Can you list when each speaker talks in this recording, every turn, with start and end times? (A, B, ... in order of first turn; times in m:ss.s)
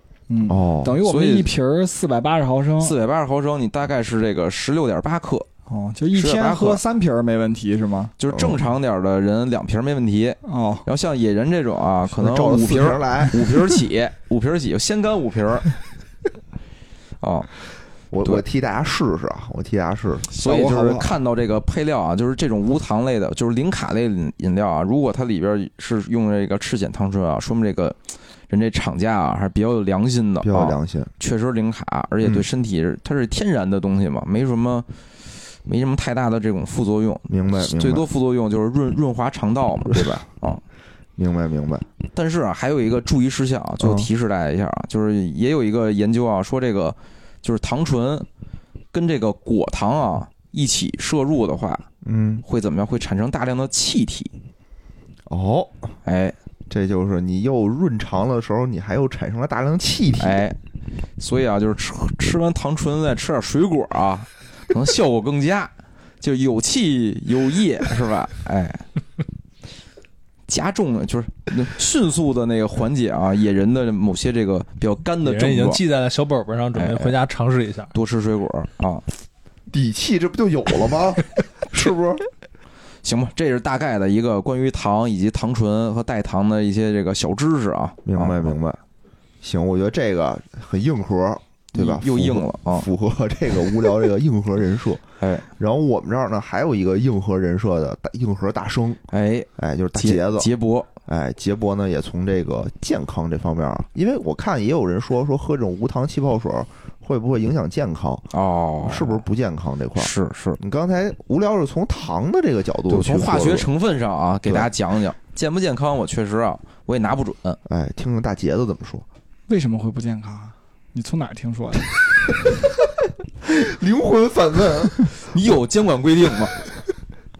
0:00.3-0:03.0 A
0:00.5-0:01.0 B
0:01.0-0:01.5 C
0:02.8-0:05.5 C
0:05.7-0:08.1 A
0:06.1-0:06.8 C
0:08.2-0:15.8 C
0:08.3-0:08.6 B
0:10.4-0:10.8 A
0:12.1-0:13.8 B
0:17.2-0:17.5 C
0:18.1-0:20.3 B
0:20.3-0:28.0 C
0:20.4-0:21.2 A
0:28.5-0:34.9 C
0:30.4-0:31.1 B
0:35.6-0:40.6 C
0:37.3-0:38.1 B
0:39.9-0:40.2 B
0:41.2-0:41.8 B
0:42.1-0:48.2 C
0:43.8-0:44.1 B
0:48.9-0:51.8 C
0:52.0-0:52.4 B
0:52.4-0:54.3 C
0:55.3-0:55.9 B
0:56.0-0:56.3 C
0:56.7-1:00.4 B
1:00.2-1:00.6 C
1:01.2-1:08.8 C
1:10.5-1:15.8 C
1:15.2-1:17.9 D
1:16.7-1:17.2 C
1:17.9-1:19.0 C
1:19.7-1:22.2 B
1:23.0-1:28.5 C
1:28.0-1:28.8 B
1:29.4-1:35.0 B
1:31.7-1:32.9 C
1:35.2-1:35.5 C
1:35.6-1:39.0 B
1:39.1-1:40.9 C
1:39.6-1:40.5 B
1:41.0-1:48.3 B
1:48.3-1:49.2 C
1:48.8-1:53.7 B
1:50.0-1:50.6 C
1:52.9-1:57.6 C
1:54.4-1:54.7 B
1:57.6-1:59.0 B
1:59.5-2:01.9 A
2:03.4-2:05.1 B
2:05.2-2:06.6 C